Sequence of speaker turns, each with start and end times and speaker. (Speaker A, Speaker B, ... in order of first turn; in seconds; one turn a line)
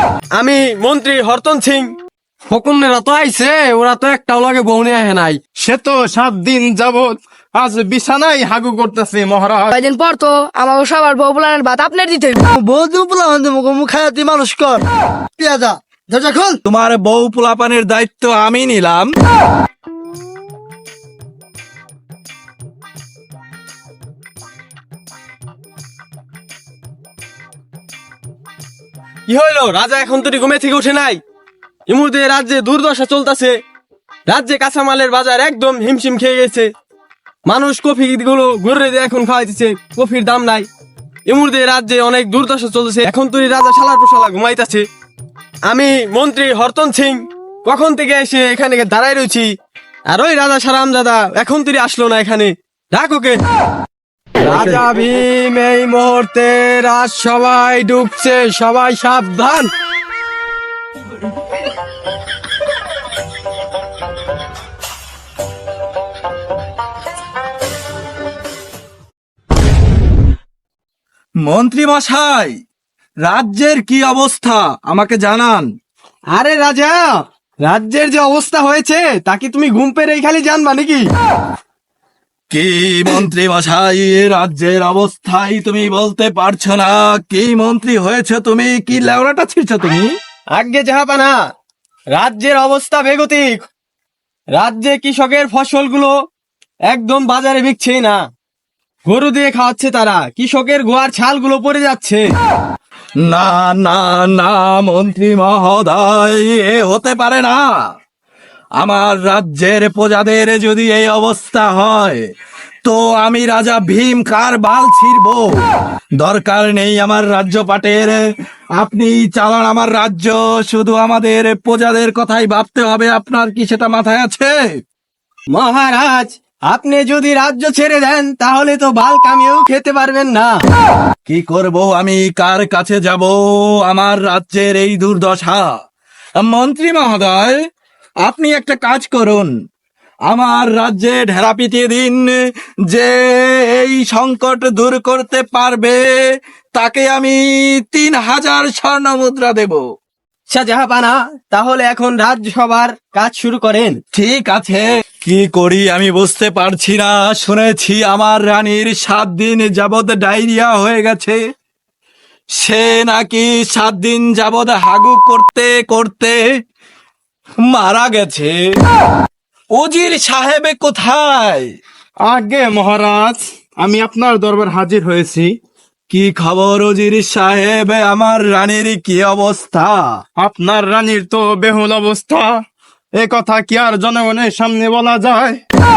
Speaker A: 0.4-1.9
Speaker A: 2.5-5.4
Speaker B: 5.6-9.7
Speaker C: 9.7-12.4
Speaker D: 12.6-14.8
Speaker D: 15.4-16.6
Speaker E: 16.7-19.1
Speaker A: 29.3-31.2
Speaker A: 31.9-33.6
Speaker A: 34.3-36.7
Speaker A: 37.5-40.7
Speaker A: 41.3-44.9
Speaker A: 45.7-49.5
Speaker A: 50.1-53.4
Speaker A: 54.4-59.7
Speaker E: 71.4-72.6
Speaker E: 73.2-75.7
Speaker A: 76.3-81.1
Speaker E: 82.5-90.1
Speaker A: 90.6-91.4
Speaker A: 92.2-93.7
Speaker A: 94.6-96.1
Speaker A: 96.9-98.2
Speaker A: 99.1-102.2
Speaker E: 103.2-107.6
Speaker E: 108.8-112.2
Speaker E: 112.8-115.6
Speaker E: 116.2-118.2
Speaker E: 118.8-124.8
Speaker A: 125.5-130.6
Speaker E: 131.3-135.8
Speaker E: 136.4-137.6
Speaker E: 138.2-139.5
Speaker E: 140.3-142.4
Speaker E: 142.9-146.2
Speaker E: 146.8-149.9
Speaker A: 150.5-154.0
Speaker E: 154.1-161.4
Speaker E: 162.6-166.4
Speaker E: 167.6-168.7
Speaker E: 169.7-171.7
Speaker B: 172.2-175.6
Speaker E: 176.1-180.2
Speaker B: 180.4-182.6
Speaker B: 183.2-185.6